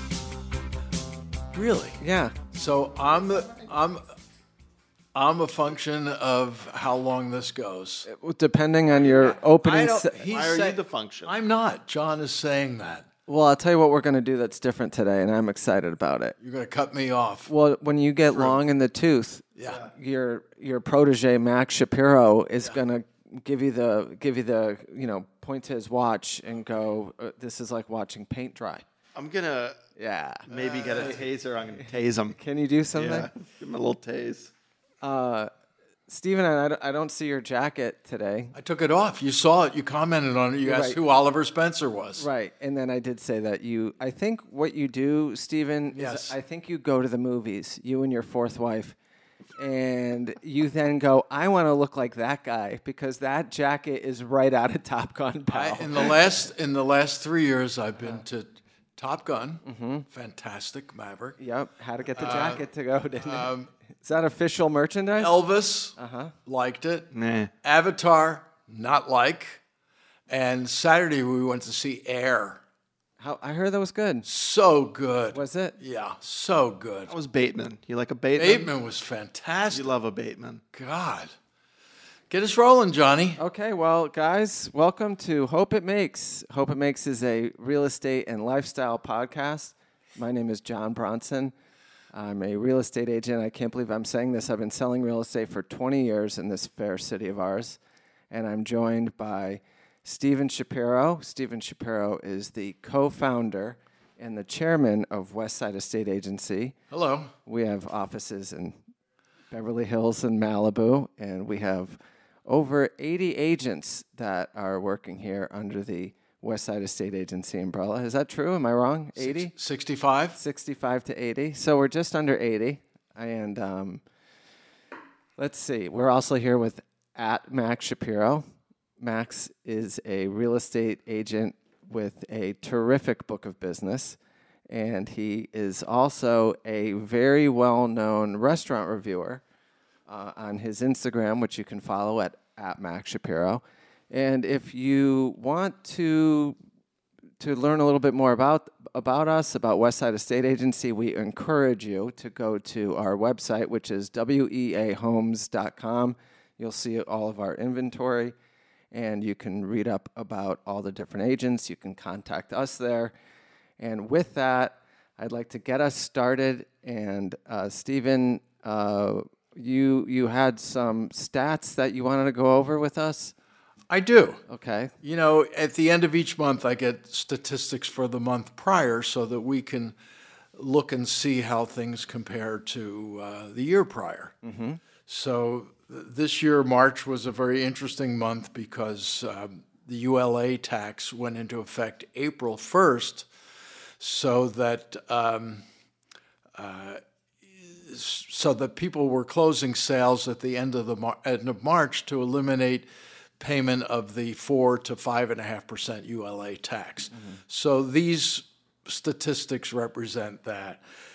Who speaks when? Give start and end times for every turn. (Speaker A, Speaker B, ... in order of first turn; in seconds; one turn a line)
Speaker A: 1.5-2.0
Speaker B: 2.0-2.4
Speaker A: 2.5-4.1
Speaker A: 5.1-8.1
Speaker B: 8.1-10.3
Speaker A: 9.1-13.1
Speaker C: 10.3-11.3
Speaker B: 13.3-16.4
Speaker A: 16.4-17.5
Speaker B: 17.5-28.8
Speaker A: 18.3-18.6
Speaker A: 19.6-19.8
Speaker C: 29.1-29.8
Speaker B: 30.0-30.5
Speaker C: 30.5-32.4
Speaker A: 30.5-31.2
Speaker B: 32.4-33.3
Speaker C: 32.9-34.5
Speaker B: 35.0-35.5
Speaker B: 36.1-38.5
Speaker A: 38.5-42.3
Speaker B: 40.6-41.0
Speaker B: 42.2-49.0
Speaker A: 46.0-46.4
Speaker B: 49.6-56.2
Speaker A: 55.5-61.4
Speaker B: 59.6-60.1
Speaker B: 61.4-63.5
Speaker A: 62.2-62.6
Speaker A: 63.2-63.7
Speaker B: 64.0-65.3
Speaker A: 65.2-67.1
Speaker B: 66.0-66.3
Speaker C: 67.1-67.5
Speaker A: 67.6-69.6
Speaker A: 70.3-72.6
Speaker B: 73.2-74.3
Speaker A: 74.2-77.1
Speaker B: 75.3-75.8
Speaker C: 77.1-78.7
Speaker A: 78.4-79.9
Speaker C: 79.7-80.6
Speaker A: 80.7-81.3
Speaker A: 82.3-83.4
Speaker B: 83.4-91.5
Speaker B: 92.1-97.8
Speaker B: 98.3-106.8
Speaker A: 106.9-107.3
Speaker B: 107.5-108.8
Speaker B: 109.5-119.5
Speaker A: 119.2-120.4
Speaker B: 120.4-124.0
Speaker B: 125.4-128.4
Speaker B: 129.0-134.2
Speaker B: 134.7-139.4
Speaker B: 140.1-146.6
Speaker B: 147.4-158.3
Speaker B: 158.9-163.1
Speaker B: 163.8-173.3
Speaker A: 173.9-174.4
Speaker B: 174.5-174.9
Speaker A: 175.0-180.0
Speaker A: 180.6-184.4
Speaker B: 184.4-184.8
Speaker A: 185.1-193.3
Speaker A: 194.0-195.6
Speaker A: 196.6-202.9
Speaker A: 203.4-210.8